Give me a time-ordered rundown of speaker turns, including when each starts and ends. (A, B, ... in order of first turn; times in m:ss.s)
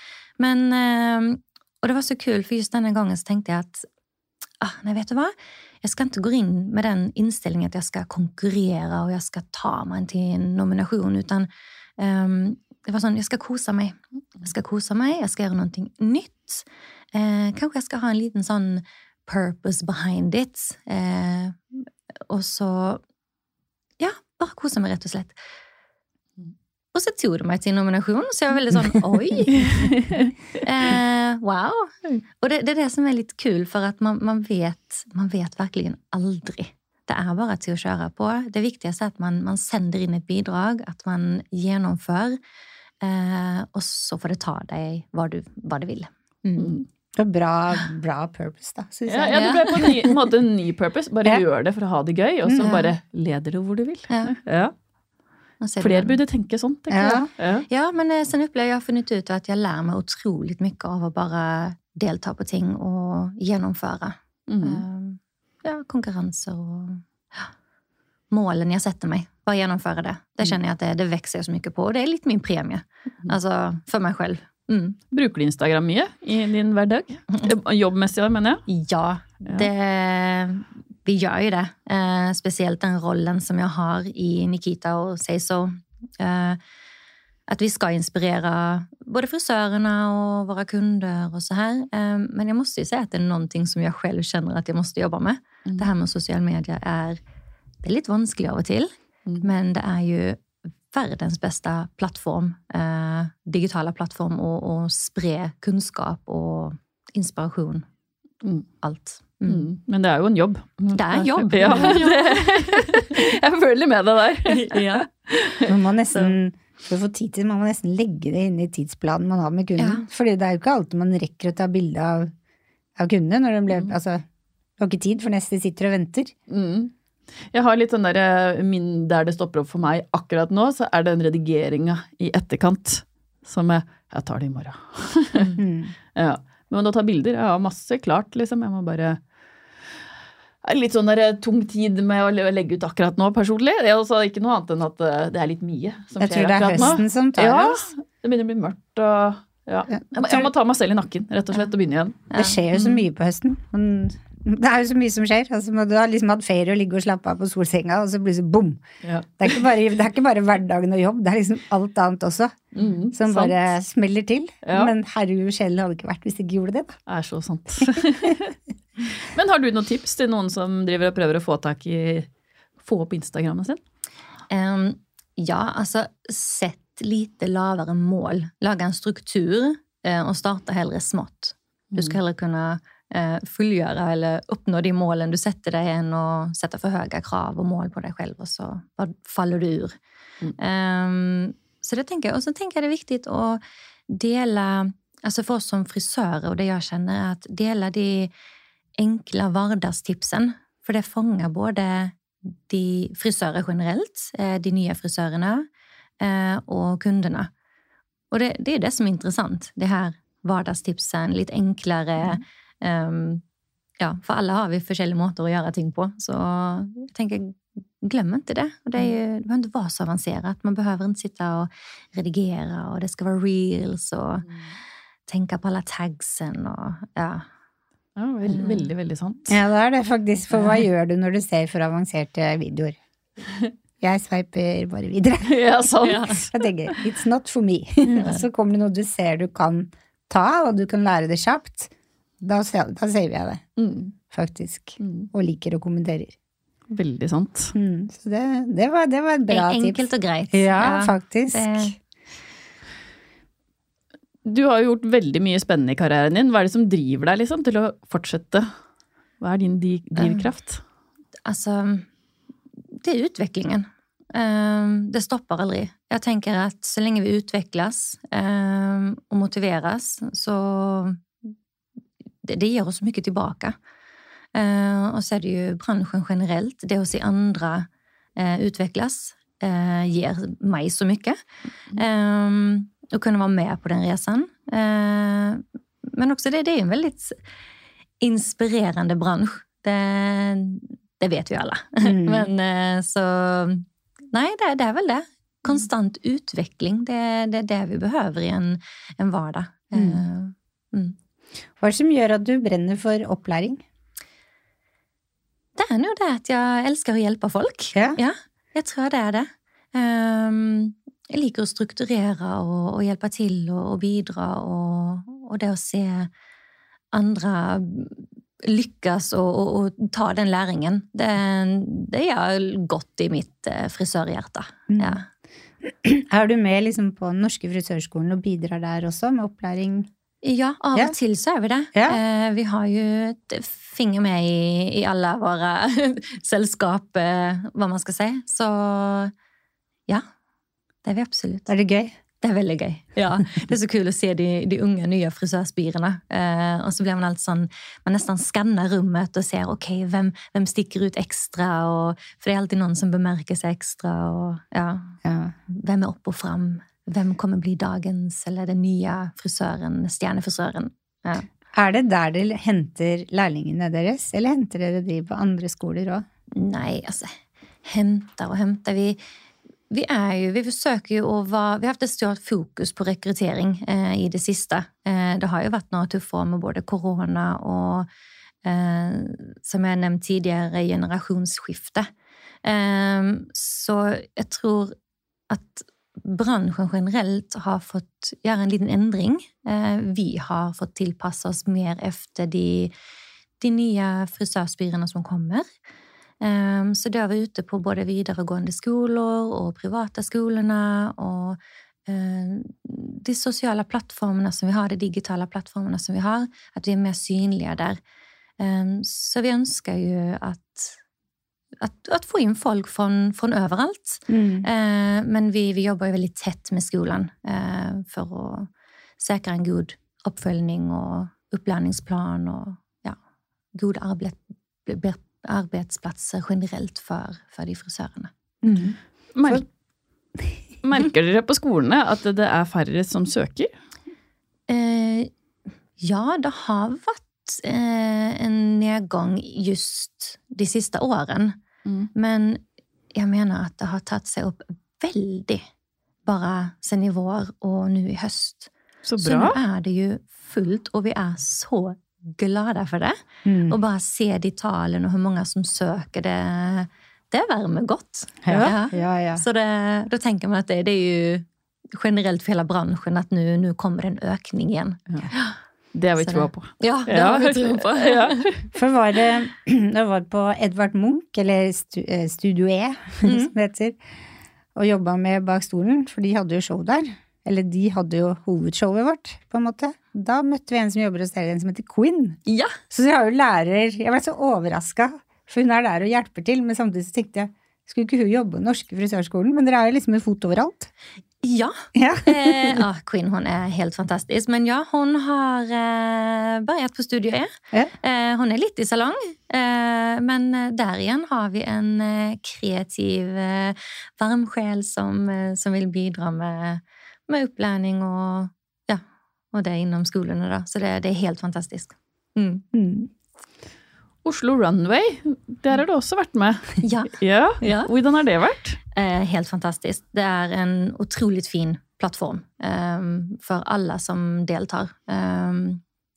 0:00.4-0:03.8 A
0:04.6-0:21.6 A
0:22.3-0:23.0 A
0:24.0-0:25.4 A
0:26.9-0:29.9 A
0:29.6-0:30.3 B
0:30.6-0:42.4 A
0:43.0-0:46.8 A
0:46.6-0:46.8 B
0:47.1-0:50.2 C
0:49.1-0:54.7 B
0:49.3-0:49.6 A
0:52.4-0:52.8 C
0:54.1-0:54.4 A
0:55.6-0:56.2 A
0:55.8-0:57.6 B
0:56.9-0:57.3 C
0:57.7-1:07.5 A
1:04.5-1:04.8 B
1:08.3-1:15.0 A
1:15.1-1:18.6 B
1:18.7-1:26.6 A
1:19.4-1:19.7 B
1:27.5-1:37.2 A
1:37.8-1:47.8 A
1:48.8-1:49.7 A
1:49.5-1:55.7 B
1:50.9-1:52.4 A
1:54.5-1:55.1 A
1:55.6-2:02.3 C
1:59.8-2:00.0 A
2:03.0-2:04.2 C
2:04.8-2:06.3 C
2:06.5-2:06.9 B
2:07.5-2:15.6 B
2:15.5-2:15.9 C
2:16.2-2:19.2 B
2:20.6-2:32.2 B
2:26.2-2:27.9 C
2:29.9-2:30.5 C
2:32.3-2:32.6 A
2:32.3-2:38.8 C
2:39.0-2:39.5 B
2:39.4-2:47.0 C
2:42.7-2:43.6 B
2:44.6-2:44.9 B
2:47.1-2:52.3 B
2:52.8-2:53.8 B
2:54.5-3:09.9 A
3:10.6-3:18.3 A
3:19.0-3:25.7 A
3:26.2-3:27.5 A
3:28.3-3:33.4 A
3:34.0-3:44.4 A
3:45.3-3:47.4 A
3:48.2-3:49.6 B
3:48.5-3:48.9 A
3:49.5-3:53.0 C
3:54.0-3:55.6 C
3:55.4-3:56.6 B
3:56.0-3:56.4 A
3:56.5-4:03.6 C
3:58.1-3:58.4 B
4:03.8-4:04.1 B
4:04.3-4:06.3 C
4:05.0-4:05.3 B
4:06.9-4:07.7 B
4:07.7-4:11.9 C
4:09.5-4:11.9 A
4:14.4-4:18.7 B
4:19.4-4:20.8 B
4:20.2-4:20.5 A
4:21.4-4:22.0 A
4:22.9-4:31.2 A
4:32.4-4:33.8 A
4:34.5-4:41.4 A
4:41.9-4:47.4 A
4:48.2-5:01.2 A
4:52.0-4:52.5 C
4:59.9-5:00.2 C
5:01.8-5:03.8 C
5:05.8-5:16.3 A
5:17.1-5:25.2 A
5:24.9-5:25.2 C
5:25.8-5:30.1 C
5:30.4-5:39.3 A
5:31.9-5:32.2 C
5:41.0-5:41.7 A
5:41.7-5:42.1 C
5:42.4-5:55.2 A
5:55.2-5:55.5 C
5:55.7-6:01.4 A
6:01.7-6:06.2 C
6:06.5-6:07.3 A
6:07.8-6:09.2 A
6:09.9-6:18.1 A
6:18.6-6:22.1 A
6:22.6-6:24.9 A
6:25.5-6:32.9 A
6:33.6-6:35.6 A
6:36.4-6:48.0 A
6:48.6-6:51.0 A
6:51.8-7:03.2 A
6:54.3-6:54.7 C
7:03.7-7:08.3 A
7:08.6-7:09.0 C
7:09.3-7:09.6 B
7:10.8-7:13.7 B
7:14.7-7:15.3 A
7:16.0-7:21.6 A
7:22.1-7:22.6 A
7:23.1-7:25.6 A
7:26.2-7:45.6 A
7:29.0-7:29.6 B
7:33.4-7:33.8 C
7:38.4-7:39.4 C
7:38.5-7:38.7 B
7:45.9-7:48.6 B
7:46.2-7:48.4 A
7:48.7-7:54.0 C
7:53.2-7:53.5 A
7:54.7-8:10.9 C
8:02.5-8:02.8 A
8:11.4-8:32.6 A
8:11.9-8:12.8 C
8:32.7-8:33.1 C
8:34.2-8:38.8 B
8:36.8-8:37.9 A
8:38.9-8:45.8 A